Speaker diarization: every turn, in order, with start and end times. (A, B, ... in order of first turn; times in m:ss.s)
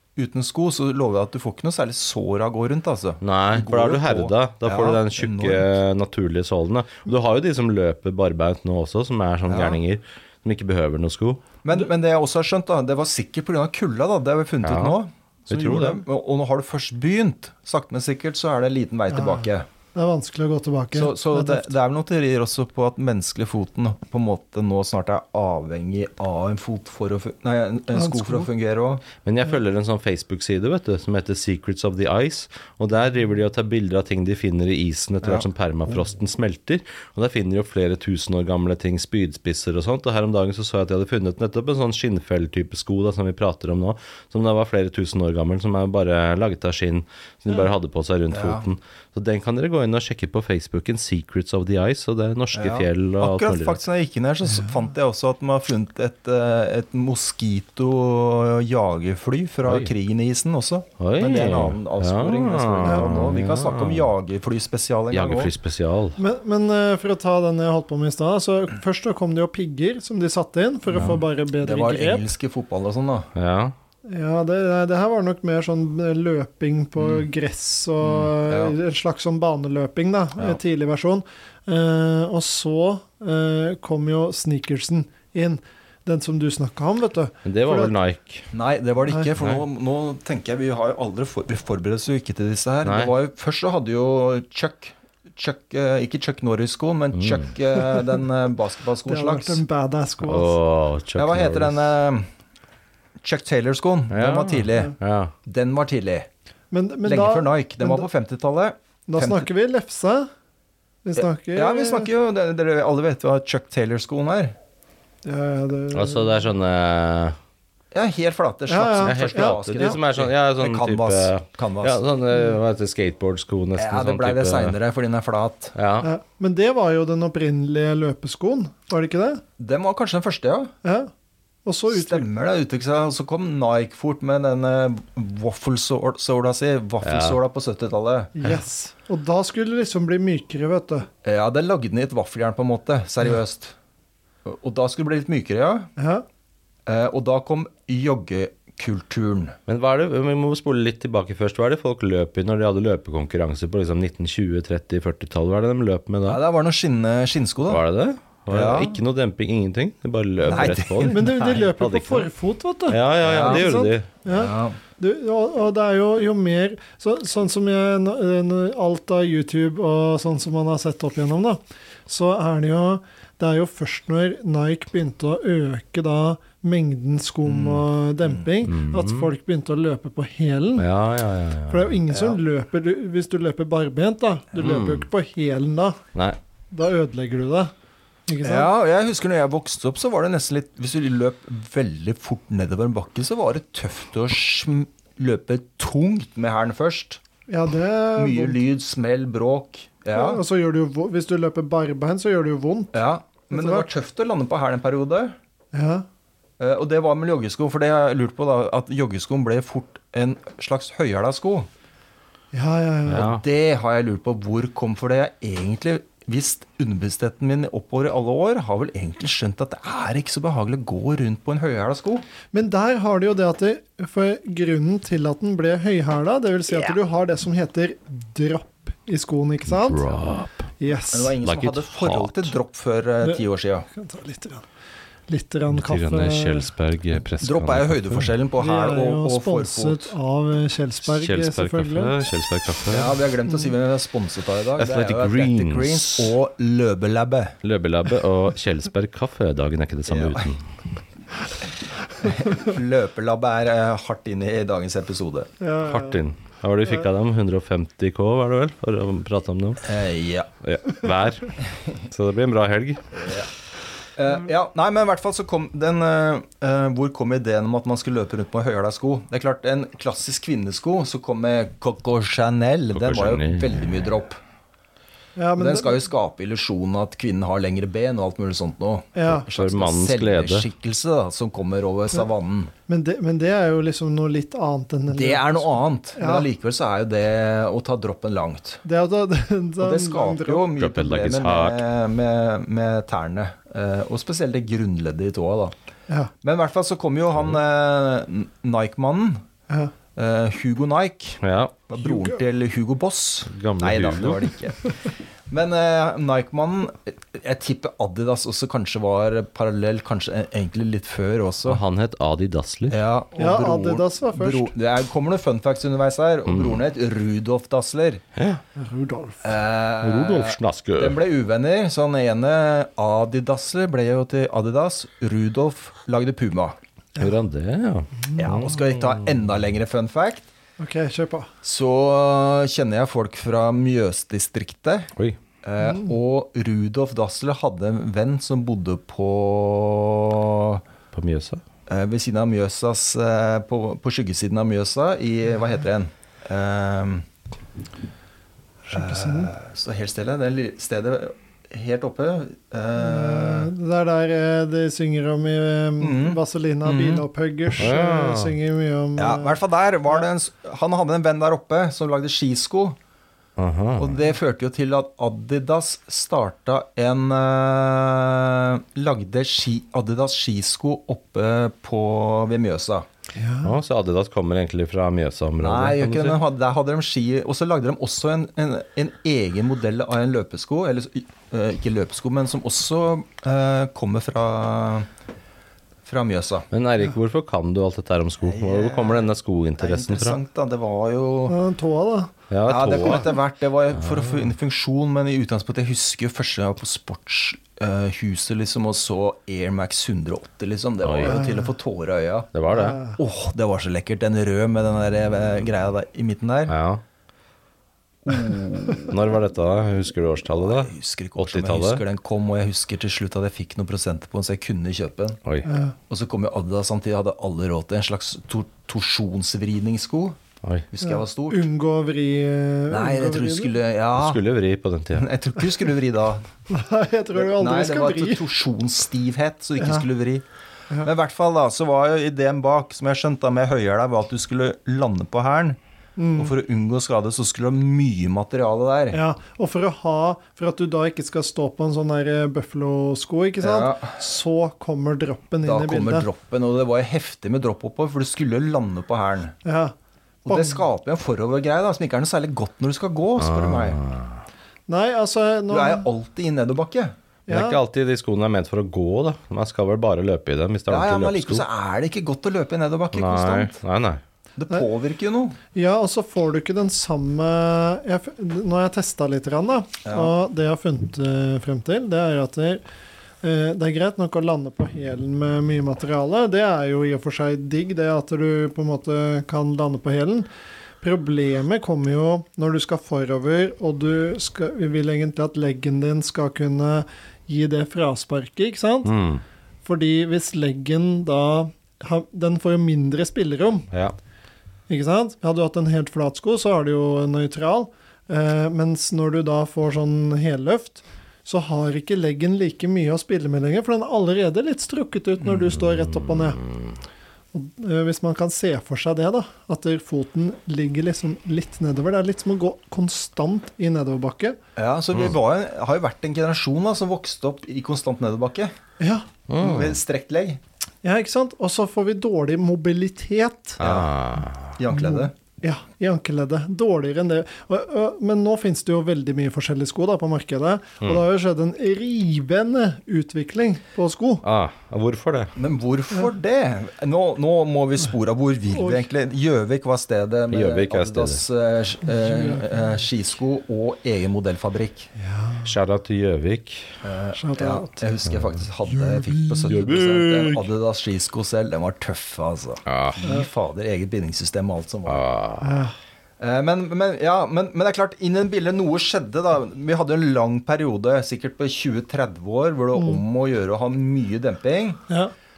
0:00.2-0:05.7 A
0:03.2-0:11.4 B
0:09.5-0:09.8 A
0:11.6-0:19.7 A
0:14.6-0:15.0 B
0:15.5-0:16.0 B
0:19.1-0:21.7 C
0:20.9-0:29.0 A
0:28.0-0:28.5 C
0:29.2-0:53.8 B
0:48.3-0:48.7 A
0:52.5-1:05.5 A
0:59.6-0:59.9 B
1:01.0-1:04.1 B
1:02.8-1:03.3 C
1:05.1-1:06.2 B
1:06.2-1:12.3 C
1:10.9-1:11.2 B
1:11.0-1:13.3 A
1:13.4-1:13.8 B
1:14.1-1:27.9 C
1:17.0-1:17.2 A
1:18.0-1:18.8 A
1:27.4-1:28.5 B
1:28.5-1:39.6 A
1:32.8-1:33.1 B
1:37.2-1:37.5 B
1:39.1-1:40.6 C
1:40.2-1:42.0 B
1:41.2-1:42.3 A
1:43.2-1:44.9 A
1:44.1-1:45.3 B
1:45.4-1:46.3 A
1:46.7-1:48.1 C
1:47.0-1:49.5 A
1:49.1-1:50.3 C
1:51.0-1:52.1 C
1:51.2-1:54.6 A
1:55.2-1:56.4 C
1:55.9-1:57.4 B
1:57.9-2:02.0 A
1:58.7-2:00.0 C
1:59.0-2:04.8 B
2:03.8-2:05.8 A
2:05.8-2:06.1 B
2:06.0-2:09.4 C
2:09.6-2:10.7 A
2:10.8-2:11.1 C
2:11.6-2:12.3 C
2:11.9-2:18.3 A
2:17.0-2:17.4 B
2:18.4-2:21.1 C
2:21.2-2:23.8 A
2:24.4-2:25.9 A
2:26.0-2:26.2 C
2:26.9-2:29.6 A
2:29.7-2:36.4 B
2:36.3-2:37.8 A
2:37.7-2:42.3 B
2:38.5-2:39.0 A
2:40.5-2:41.6 A
2:41.0-3:00.9 C
2:42.9-2:44.1 B
2:43.2-2:43.7 A
2:44.3-2:44.8 A
2:57.4-2:58.5 A
2:58.6-2:59.3 B
3:00.8-3:02.0 B
3:01.7-3:06.0 C
3:02.1-3:02.4 A
3:04.6-3:05.1 B
3:06.7-3:07.7 C
3:08.3-3:08.7 C
3:08.4-3:17.2 A
3:17.5-3:18.6 C
3:18.2-3:20.4 A
3:20.1-3:23.9 C
3:22.9-3:25.4 A
3:25.7-3:26.0 C
3:26.6-3:31.7 A
3:32.5-3:33.4 C
3:33.1-3:33.4 B
3:33.2-3:42.2 A
3:42.5-3:50.1 C
3:49.7-3:50.7 B
3:50.8-3:51.4 C
3:51.1-3:53.9 A
3:51.4-3:52.6 B
3:53.2-3:54.6 C
3:55.3-3:56.7 C
3:55.7-3:58.3 B
3:57.4-4:00.2 A
3:58.6-4:02.2 C
4:01.0-4:03.2 B
4:02.9-4:07.6 A
4:04.8-4:06.4 B
4:07.6-4:10.6 B
4:10.1-4:10.5 A
4:12.2-4:15.5 A
4:15.6-4:16.2 C
4:15.8-4:19.9 B
4:19.8-4:20.5 A
4:20.6-4:23.0 B
4:23.1-4:23.5 A
4:24.2-4:34.4 A
4:32.9-4:33.9 B
4:35.4-4:36.0 C
4:35.6-4:42.7 A
4:39.2-4:39.4 C
4:39.5-4:40.7 B
4:42.9-4:46.5 C
4:45.1-4:48.8 A
4:48.8-4:50.7 C
4:49.8-4:55.8 A
4:50.8-4:51.8 B
4:56.4-4:59.4 A
5:00.2-5:11.8 A
5:01.4-5:01.7 B
5:03.5-5:04.5 B
5:11.6-5:13.0 B
5:12.9-5:18.2 A
5:13.4-5:14.7 C
5:16.5-5:16.8 B
5:18.4-5:18.6 B
5:18.8-5:19.6 C
5:19.4-5:26.8 A
5:20.0-5:21.2 B
5:27.2-5:29.1 B
5:28.4-5:30.5 A
5:30.8-5:31.5 C
5:31.6-5:35.1 A
5:35.6-5:40.8 A
5:35.8-5:36.1 C
5:41.1-5:41.6 B
5:41.9-5:47.3 A
5:48.9-5:49.5 C
5:48.9-5:53.7 A
5:53.0-5:59.6 C
5:56.0-5:57.2 A
5:57.8-5:58.6 B
5:59.2-6:03.0 A
6:03.6-6:04.2 B
6:04.0-6:13.1 A
6:13.4-6:13.8 C
6:13.6-6:16.4 B
6:15.6-6:25.1 A
6:26.0-6:26.7 A
6:26.7-6:30.4 B
6:28.4-6:31.6 A
6:31.5-6:32.3 C
6:32.5-6:33.3 B
6:32.7-6:42.5 A
6:34.0-6:34.5 B
6:41.0-6:41.4 B
6:41.2-6:41.7 C
6:42.5-6:43.0 B
6:42.7-6:43.2 C
6:43.1-6:46.7 A
6:46.7-6:47.0 B
6:48.2-6:49.2 A
6:49.0-6:52.0 B
6:50.5-6:55.4 A
6:55.7-6:56.0 C
6:56.1-7:00.4 A
7:00.9-7:01.7 A
7:01.0-7:03.7 C
7:02.9-7:04.4 A
7:04.2-7:05.3 B
7:05.1-7:06.5 A
7:06.7-7:08.4 C
7:07.4-7:15.8 A
7:09.8-7:10.0 C
7:16.2-7:16.5 C
7:16.4-7:19.2 A
7:19.1-7:26.3 C
7:23.6-7:24.2 A
7:25.6-7:29.6 A
7:29.6-7:29.9 C
7:30.4-7:34.0 A
7:30.5-7:30.8 C
7:33.4-7:34.4 B
7:34.9-7:36.0 C
7:35.7-7:37.2 A
7:37.5-7:37.8 C
7:37.5-7:41.6 B
7:40.9-7:43.8 A
7:43.1-7:44.2 B
7:44.6-7:45.6 A
7:45.7-7:52.8 C
7:50.0-7:50.3 A
7:53.4-8:00.5 C
8:01.0-8:09.1 C
8:09.0-8:09.4 B
8:09.8-8:13.9 C
8:13.9-8:14.2 B
8:14.9-8:26.6 C
8:25.7-8:27.0 B
8:27.5-8:34.6 C
8:34.8-8:38.7 A
8:39.0-8:39.3 C
8:39.5-8:40.0 B
8:39.6-8:40.6 A
8:41.0-8:43.8 C
8:43.8-8:44.1 A
8:43.8-8:44.8 B
8:44.7-8:45.3 A
8:44.9-8:54.4 C
8:54.4-8:55.5 B
8:55.6-9:05.1 A
8:58.7-8:59.1 C
9:00.5-9:01.4 B
9:02.1-9:02.7 C
9:05.2-9:05.7 C
9:05.6-9:06.9 B
9:07.0-9:15.2 A
9:07.4-9:08.0 C
9:08.9-9:09.8 C
9:09.7-9:10.6 B
9:12.9-9:13.2 B
9:15.1-9:15.9 B
9:15.6-9:16.0 C
9:16.4-9:25.0 A
9:23.0-9:23.2 C